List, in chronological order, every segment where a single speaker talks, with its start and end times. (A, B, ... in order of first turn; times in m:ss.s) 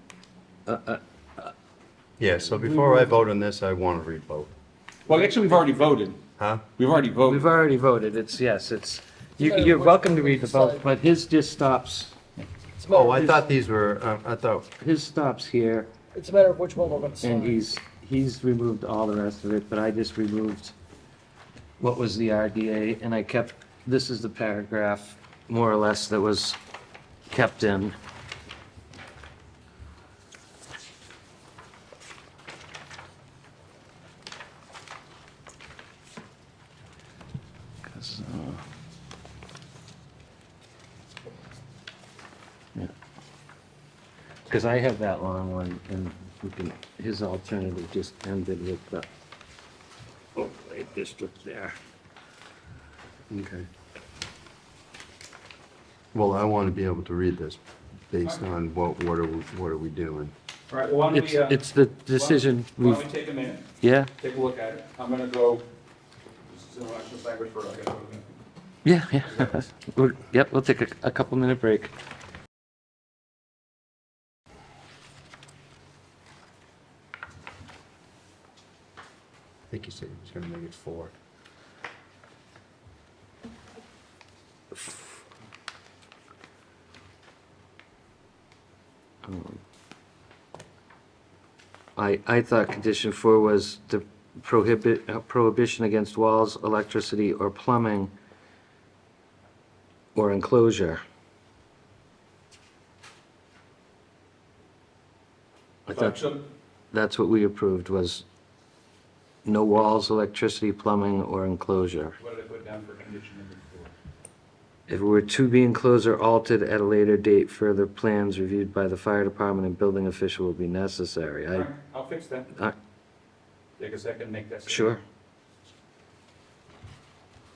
0:00.7-0:01.5 A
0:02.2-0:04.5 B
0:05.1-0:06.2 C
0:06.4-0:06.6 B
0:06.8-0:07.5 C
0:07.2-0:12.2 A
0:09.4-0:10.9 D
0:12.8-0:13.4 D
0:12.9-0:14.7 B
0:14.8-0:15.9 A
0:16.1-0:17.6 D
0:17.2-0:20.7 A
0:21.8-0:26.6 A
0:27.3-0:27.9 A
0:37.9-0:38.6 A
0:44.5-0:49.1 A
0:50.4-0:51.8 A
0:53.3-0:53.7 B
0:56.1-1:00.3 B
1:00.7-1:01.6 C
1:01.1-1:03.1 A
1:02.1-1:03.7 C
1:03.8-1:04.1 A
1:04.2-1:05.6 C
1:06.5-1:08.3 C
1:08.8-1:11.9 A
1:09.3-1:09.6 C
1:19.7-1:21.1 B
1:24.7-1:25.2 A
1:29.2-1:29.6 A
1:32.0-1:38.1 A
1:40.2-1:41.0 A
1:45.9-1:46.3 A
1:45.9-1:46.4 C
1:46.9-1:48.2 A
1:49.4-1:52.2 A
1:52.2-1:53.9 C
1:54.9-2:01.7 A
2:01.5-2:02.5 C
2:03.8-2:05.0 C
2:04.7-2:05.0 A